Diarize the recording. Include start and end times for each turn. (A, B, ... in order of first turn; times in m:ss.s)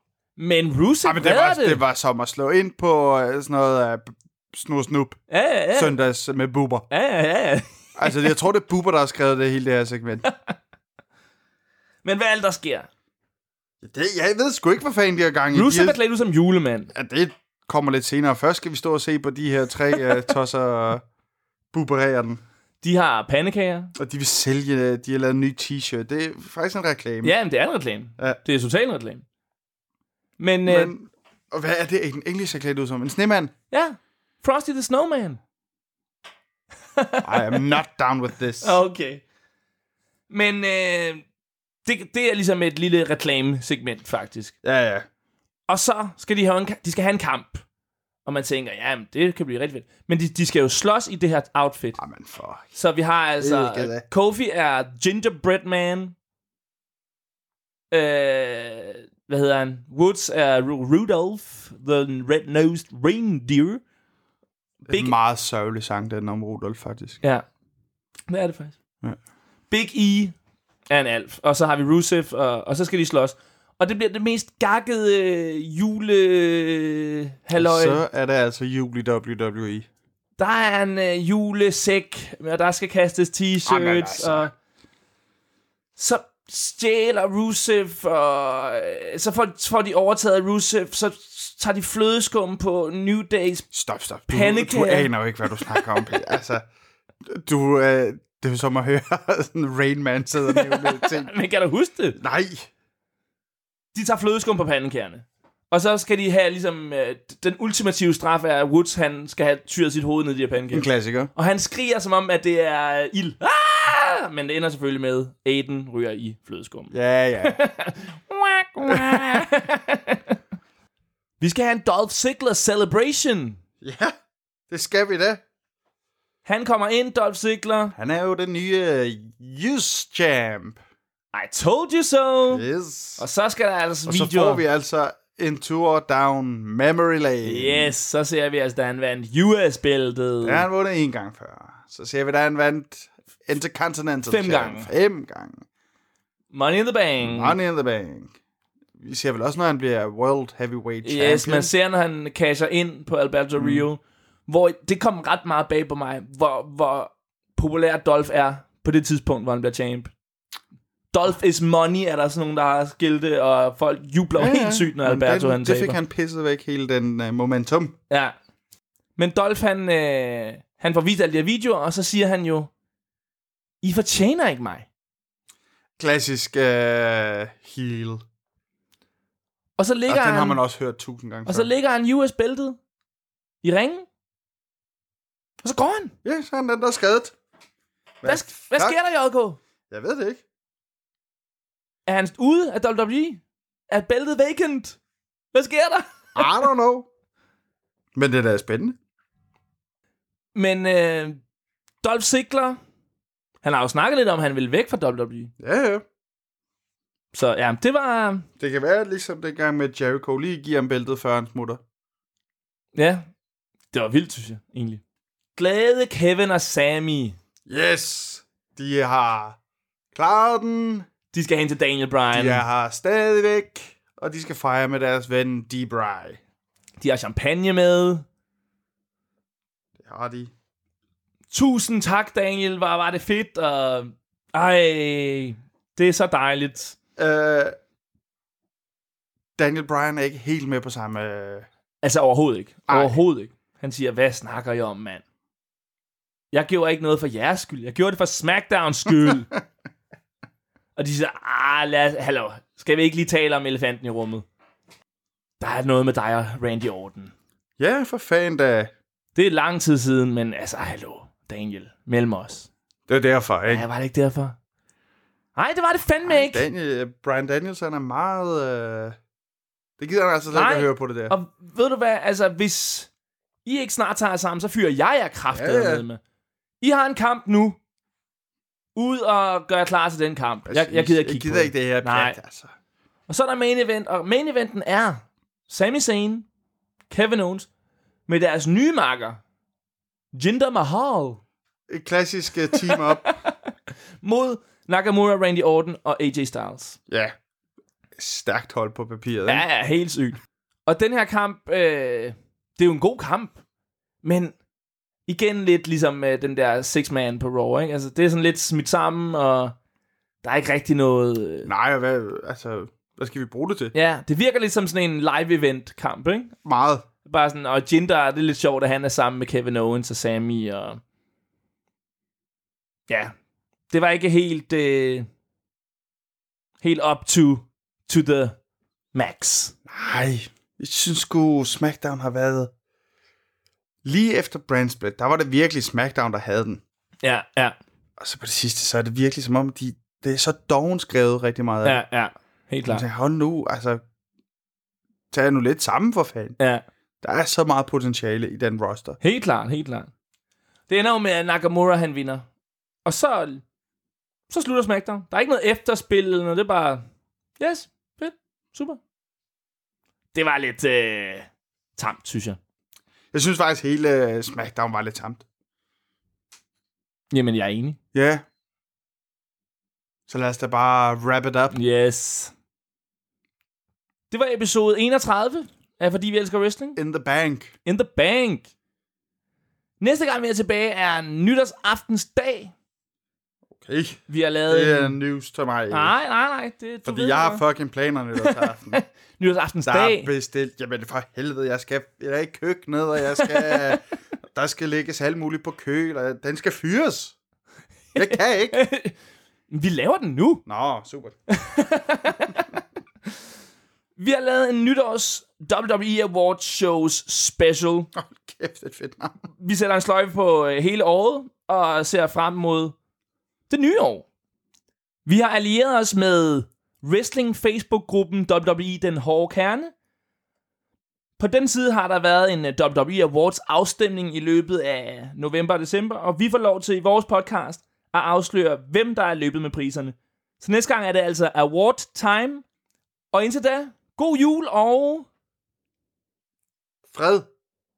0:00.4-0:01.8 A
0:01.0-0:05.2 B
0:05.3-0:06.0 A
0:05.7-0:06.9 B
0:06.9-0:08.2 A
0:08.0-0:10.3 B
0:10.3-0:10.5 A
0:12.0-0:12.9 A
0:13.8-0:16.0 B
0:15.5-0:16.9 A
0:16.9-0:21.0 B
0:21.7-0:22.4 B
0:22.8-0:23.9 A
0:24.0-0:27.3 B
0:27.2-0:29.2 A
0:30.4-0:30.9 A
0:30.6-0:33.5 B
0:33.7-0:35.4 A
0:37.0-0:37.7 A
0:37.2-0:38.8 B
0:38.6-0:39.2 A
0:40.3-0:41.2 A
0:41.9-0:44.5 A
0:44.6-0:45.0 B
0:45.7-0:47.6 A
0:48.3-0:52.0 A
0:52.0-0:52.7 B
0:52.7-0:56.1 A
0:53.4-0:54.0 B
0:57.9-1:03.8 A
1:04.9-1:07.2 B
1:04.9-1:05.1 A
1:08.3-1:08.8 A
1:09.7-1:10.3 A
1:10.9-1:18.0 A
1:17.6-1:19.9 B
1:20.4-1:24.5 A
1:23.6-1:24.5 B
1:26.0-1:33.6 A
1:33.7-1:36.7 B
1:34.3-1:35.8 A
1:37.2-1:41.3 B
1:40.5-1:42.2 A
1:42.2-1:42.7 B
1:43.9-2:00.3 A
1:50.7-1:51.3 B
1:56.9-1:57.6 B
1:58.9-1:59.4 B
2:01.4-2:03.6 A
2:03.8-2:04.1 B
2:04.7-2:05.4 B
2:06.4-2:07.9 A
2:08.0-2:10.8 B
2:11.3-2:12.6 A
2:12.5-2:13.2 B
2:13.2-2:14.6 A
2:14.0-2:17.9 B
2:17.4-2:20.6 A
2:20.4-2:25.6 B
2:24.3-2:24.9 A
2:26.5-2:27.6 A
2:27.2-2:28.3 B
2:29.0-2:31.7 B
2:31.0-2:40.1 A
2:33.6-2:33.9 B
2:41.1-2:46.0 A
2:44.4-2:48.0 B
2:48.1-2:48.3 A
2:49.2-2:52.7 A
2:53.8-2:54.9 A
2:56.0-2:58.2 B
2:59.8-3:00.6 A
3:00.1-3:01.7 B
3:01.4-3:02.8 A
3:03.6-3:04.0 A
3:05.6-3:06.1 A
3:06.2-3:07.3 B
3:08.2-3:09.0 B
3:08.2-3:09.6 A
3:09.9-3:10.4 B
3:12.1-3:13.4 A
3:13.9-3:15.0 A
3:15.5-3:16.6 A
3:16.4-3:17.1 B
3:18.1-3:19.0 B
3:20.6-3:21.4 A
3:22.0-3:22.8 A
3:23.6-3:25.5 A
3:25.6-3:26.0 B
3:27.3-3:28.5 A
3:28.6-3:31.8 B
3:33.0-3:33.3 A
3:33.9-3:35.0 A
3:35.6-3:37.4 A
3:37.7-3:39.6 B
3:40.1-3:41.1 B
3:41.3-3:42.6 A
3:42.3-3:46.4 B
3:47.0-3:48.2 A
3:50.0-3:50.5 B
3:51.5-3:57.0 A
3:57.2-3:57.8 B
3:59.6-4:01.7 B
4:02.0-4:05.2 A
4:02.9-4:03.2 B
4:06.5-4:09.5 A
4:11.0-4:14.4 A
4:15.6-4:17.3 A
4:17.8-4:18.9 B
4:19.4-4:22.7 A
4:23.1-4:23.9 B
4:23.7-4:24.6 A
4:25.6-4:26.6 A
4:26.2-4:29.2 B
4:30.0-4:31.4 B
4:30.5-4:33.1 A
4:33.6-4:36.2 A
4:35.5-4:36.0 B
4:36.8-4:37.8 A
4:39.0-4:42.4 A
4:40.7-4:42.7 B
4:43.3-4:46.4 A
4:47.1-4:47.7 A
4:48.3-4:49.4 A
4:50.3-4:51.4 A
4:51.9-4:53.4 B
4:52.8-4:53.5 A
4:54.2-4:57.0 A
4:57.1-4:57.3 B
4:58.2-4:59.6 B
4:59.5-5:03.6 A
5:04.2-5:04.6 A
5:05.3-5:09.7 A
5:10.4-5:11.7 A
5:11.6-5:13.9 B
5:13.9-5:16.5 A
5:16.6-5:17.0 B
5:17.2-5:21.0 A
5:23.1-5:23.3 A
5:23.9-5:25.3 A
5:26.8-5:28.6 A
5:29.1-5:29.7 A
5:29.9-5:32.7 B
5:34.0-5:36.8 B
5:37.2-5:37.8 A
5:38.2-5:42.0 B
5:41.8-5:43.0 A
5:42.9-5:44.0 B
5:45.3-5:46.6 B
5:46.6-5:46.8 A
5:47.2-5:49.2 B
5:49.2-5:50.1 A
5:50.9-5:52.4 A
5:53.0-5:53.6 A
5:54.5-5:57.0 A
5:57.6-5:59.0 A
6:00.3-6:02.6 A
6:03.3-6:05.4 B
6:07.3-6:08.0 A
6:08.1-6:08.4 B
6:10.3-6:11.7 B
6:11.7-6:12.5 A
6:14.3-6:17.0 A
6:17.0-6:17.7 B
6:17.8-6:18.7 A
6:20.0-6:22.7 A
6:23.8-6:26.1 B
6:24.3-6:25.2 A
6:25.9-6:27.6 A
6:27.0-6:29.0 B
6:28.4-6:30.3 A
6:29.9-6:37.3 B
6:33.4-6:34.0 A
6:38.1-6:38.8 B
6:38.2-6:39.1 A
6:39.7-6:40.6 A
6:40.7-6:41.4 B
6:41.5-6:42.6 A
6:44.2-6:48.1 A
6:48.2-6:49.4 B
6:49.6-6:53.0 A
6:53.7-6:54.2 A
6:55.3-6:59.9 A
7:01.4-7:12.6 A
7:13.3-7:15.3 A
7:17.1-7:17.5 B